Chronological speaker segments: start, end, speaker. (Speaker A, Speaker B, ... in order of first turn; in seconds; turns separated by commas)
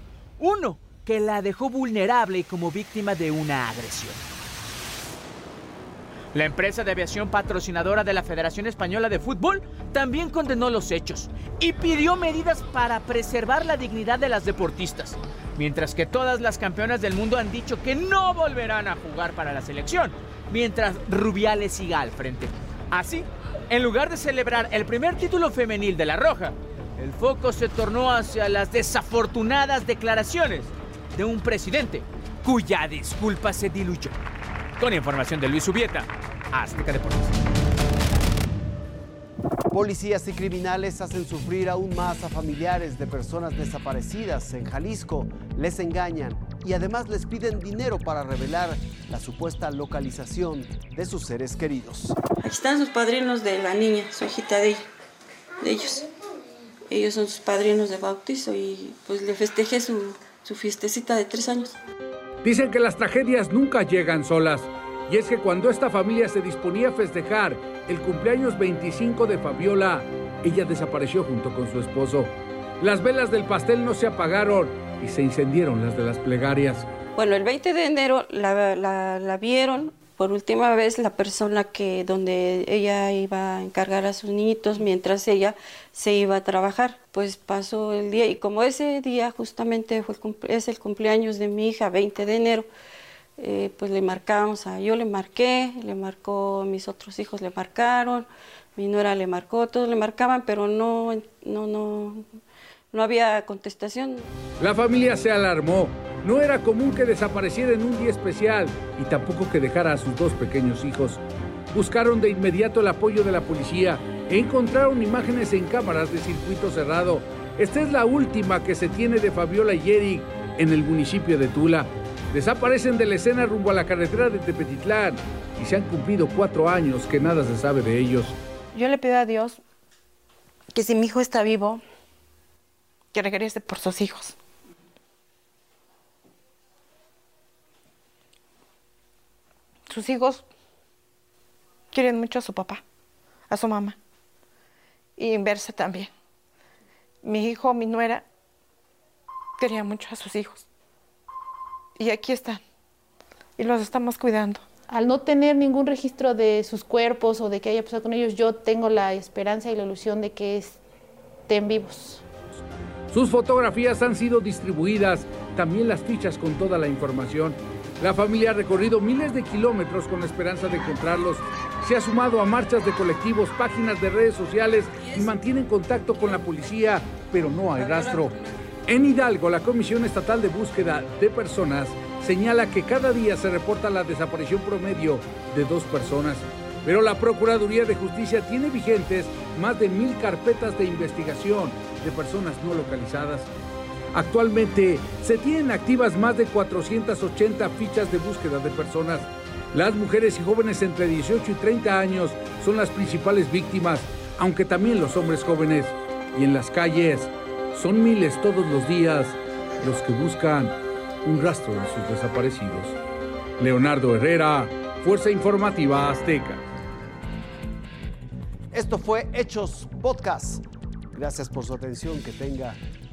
Speaker A: 0.4-4.2, Speaker A: 6.3-34.1, Speaker A: 34.8-37.4, Speaker B: 39.7-52.2, Speaker C: 52.4-54.8, Speaker C: 55.6-56.1, Speaker C: 56.9-61.8, Speaker D: 62.4-76.9, Speaker C: 77.2-92.7, Speaker C: 93.4-102.2, Speaker C: 102.9-104.3, Speaker D: 104.6-111.2, Speaker D: 111.7-128.3, Speaker E: 128.7-129.6, Speaker E: 130.7-131.8, Speaker E: 133.1-134.3, Speaker E: 139.9-140.4, Speaker E: 141.9-142.8, Speaker E: 143.5-144.0, Speaker E: 145.2-146.1, Speaker E: 147.2-148.2, Speaker E: 149.6-150.7, Speaker E: 152.0-152.6, Speaker E: 153.6-154.6, Speaker F: 154.9-160.8, Speaker F: 161.5-162.2, Speaker D: 163.1-178.3, Speaker D: 178.9-193.5, Speaker D: 194.1-213.0, Speaker D: 213.6-216.6, Speaker B: 218.7-220.6, Speaker B: 221.1-222.8